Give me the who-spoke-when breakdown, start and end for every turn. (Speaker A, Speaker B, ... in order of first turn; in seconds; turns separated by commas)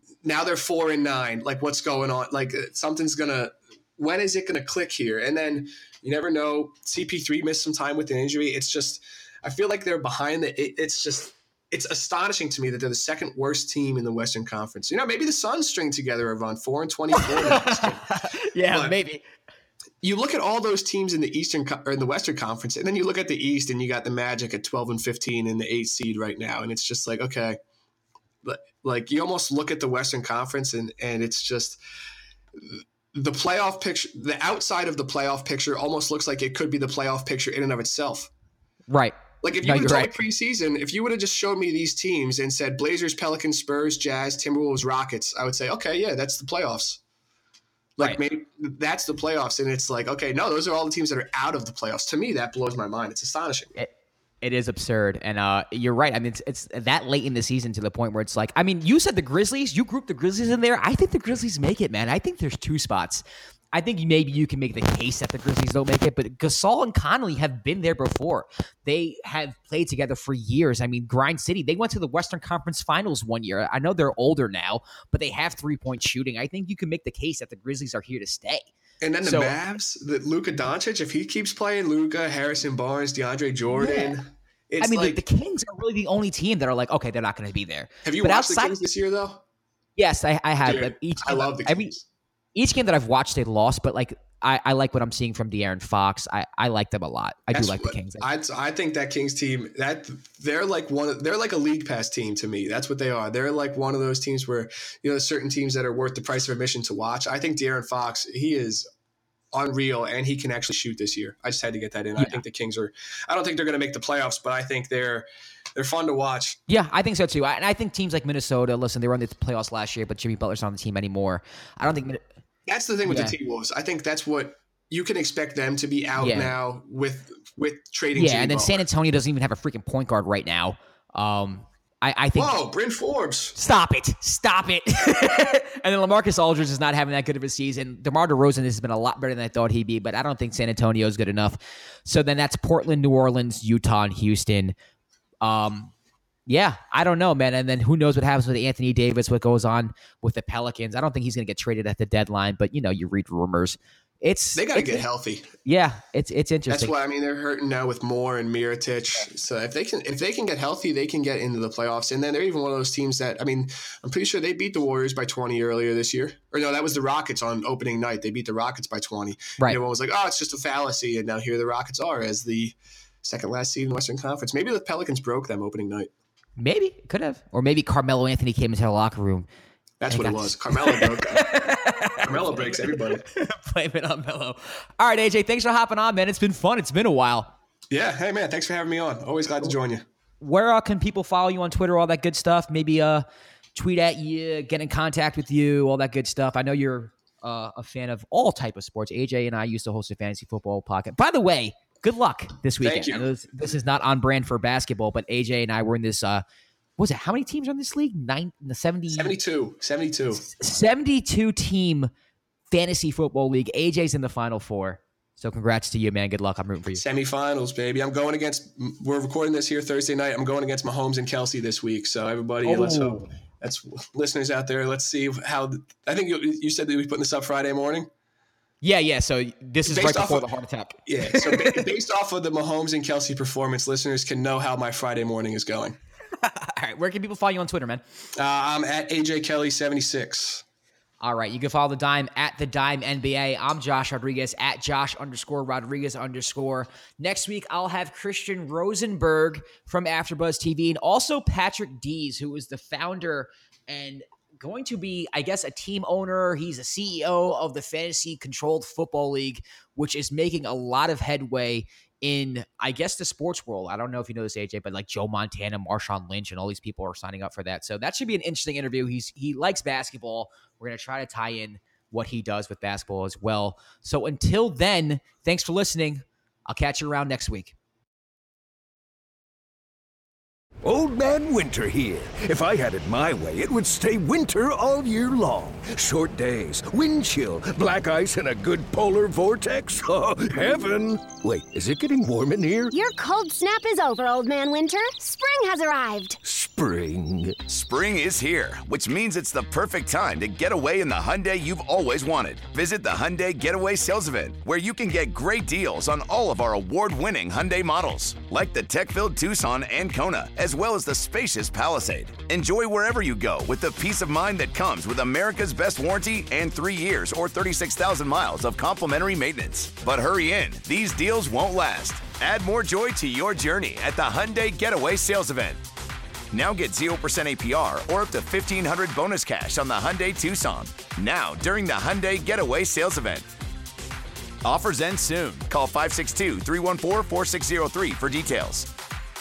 Speaker A: 0.2-18.1, Speaker B: 17.1-19.2, Speaker A: 18.7-18.9, Speaker A: 20.0-27.6, Speaker A: 28.4-31.8, Speaker A: 32.5-38.3, Speaker B: 38.9-40.2, Speaker A: 39.4-47.0, Speaker A: 48.0-53.7, Speaker B: 54.4-78.7, Speaker A: 79.0-85.2, Speaker B: 79.2-79.5, Speaker B: 83.7-84.1, Speaker B: 84.8-88.8, Speaker A: 88.0-89.4, Speaker B: 90.0-91.9, Speaker A: 90.6-92.0, Speaker B: 92.5-98.2, Speaker A: 97.5-108.9, Speaker A: 109.5-116.6, Speaker B: 116.7-122.2, Speaker A: 122.7-128.8, Speaker B: 123.0-123.3, Speaker B: 126.2-126.5, Speaker B: 128.1-132.6, Speaker A: 132.3-133.6, Speaker B: 133.6-144.7, Speaker B: 145.4-145.9, Speaker B: 146.5-155.0, Speaker A: 154.5-155.5, Speaker B: 155.6-156.9, Speaker A: 156.7-176.1, Speaker B: 176.6-179.5, Speaker A: 180.0-181.5, Speaker B: 180.1-187.5, Speaker A: 182.2-183.2, Speaker A: 187.9-190.0, Speaker B: 190.4-206.4, Speaker A: 202.8-203.3, Speaker B: 207.0-209.3, Speaker A: 209.1-210.4, Speaker B: 210.4-212.1, Speaker B: 212.7-217.0, Speaker A: 216.9-228.1, Speaker B: 222.6-223.3, Speaker B: 228.8-231.8, Speaker A: 229.8-230.5, Speaker A: 231.1-236.0, Speaker B: 236.4-238.0, Speaker A: 238.4-240.6, Speaker B: 241.2-277.7, Speaker C: 280.8-292.9, Speaker D: 292.9-296.4, Speaker C: 296.4-297.6, Speaker E: 297.6-325.8, Speaker E: 326.5-333.4, Speaker E: 334.6-338.9